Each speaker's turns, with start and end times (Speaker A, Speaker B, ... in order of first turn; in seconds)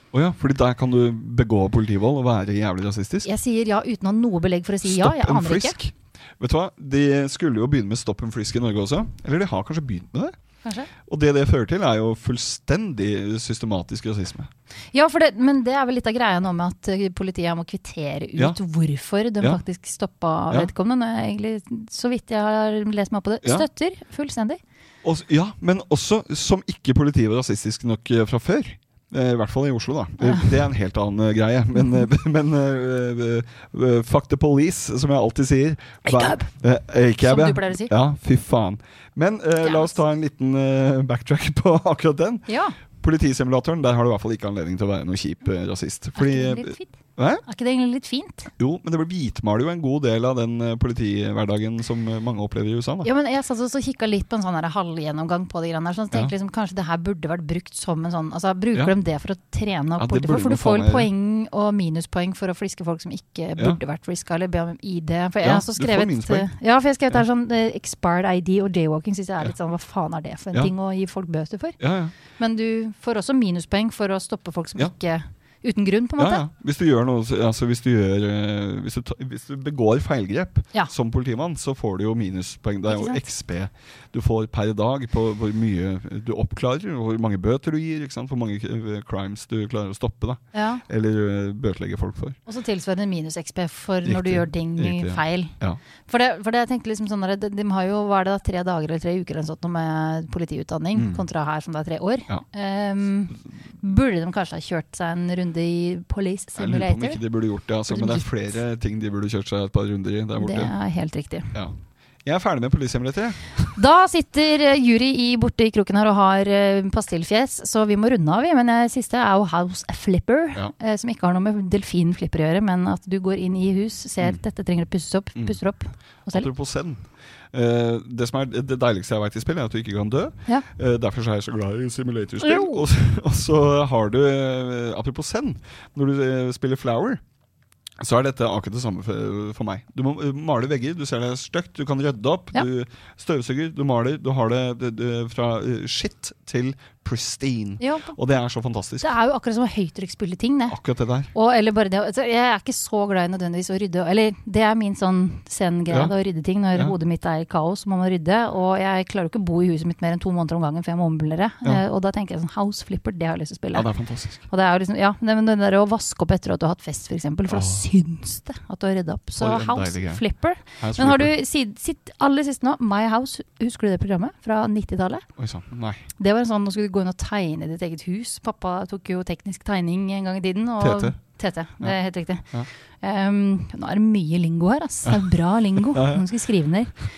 Speaker A: 0.1-3.3, 4.8-10.3, 11.1-14.5, 25.0-42.5, 43.0-47.4, 48.6-53.1, 60.0-61.1, 65.4-66.5, 71.8-72.1, 76.2-92.4, 94.0-95.8, 101.0-101.2, 106.6-110.7, 111.5-113.7, 126.3-127.0, 127.5-137.2, 138.0-149.1, 150.7-151.3, 163.7-164.4, 167.5-167.8, 169.4-170.2, 170.8-171.3, 175.4-176.1, 180.8-181.2, 185.8-186.2
Speaker B: 3.2-5.8, 10.6-10.9, 14.9-24.6, 36.0-36.5, 37.2-37.9, 39.6-40.0, 42.5-42.8, 46.2-48.5, 53.0-71.8, 72.4-76.4, 82.9-83.2, 90.5-90.8, 92.5-95.5, 96.1-107.2, 107.9-108.3, 110.4-111.5, 113.8-126.5, 132.4-132.8, 147.8-148.2, 149.0-150.8, 151.3-163.9, 164.5-175.3, 176.2-186.9